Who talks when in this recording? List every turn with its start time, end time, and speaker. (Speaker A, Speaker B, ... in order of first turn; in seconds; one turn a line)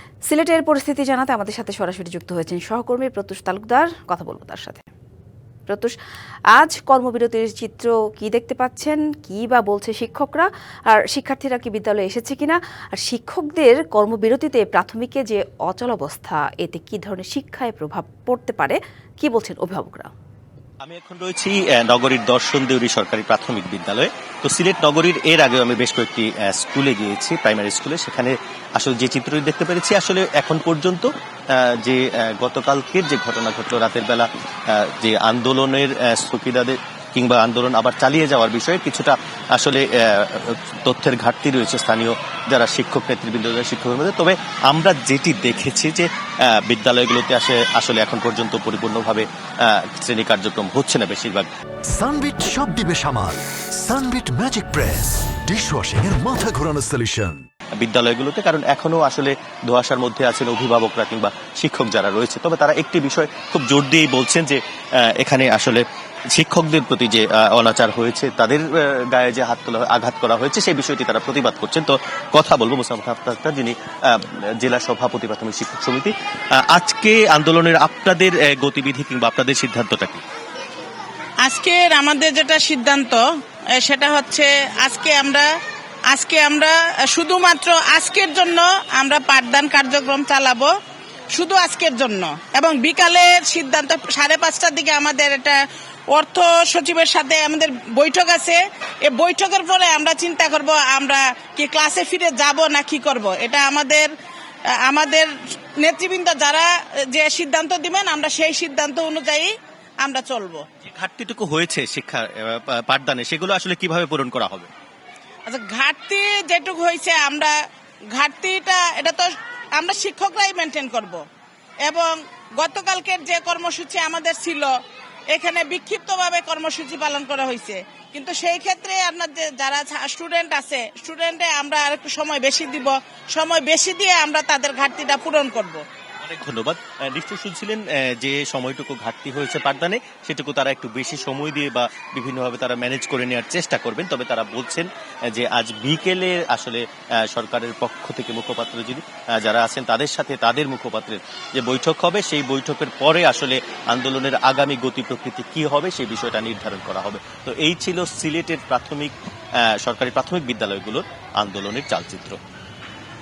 Speaker A: 0.3-4.9
Speaker A: 5.7-5.9
Speaker A: 6.5-20.1
Speaker B: 20.8-51.5
Speaker C: 51.9-57.5
Speaker B: 57.8-80.2
Speaker D: 81.4-83.2
Speaker D: 83.8-85.5
Speaker D: 86.1-90.7
Speaker D: 91.3-95.6
Speaker D: 96.1-104.1
Speaker D: 104.8-110.6
Speaker B: 110.8-114.7
Speaker D: 115.5-117.5
Speaker D: 118.1-121.2
Speaker D: 121.8-124.7
Speaker D: 125.3-135.8
Speaker B: 136.2-159.1
Speaker B: 159.6-162.4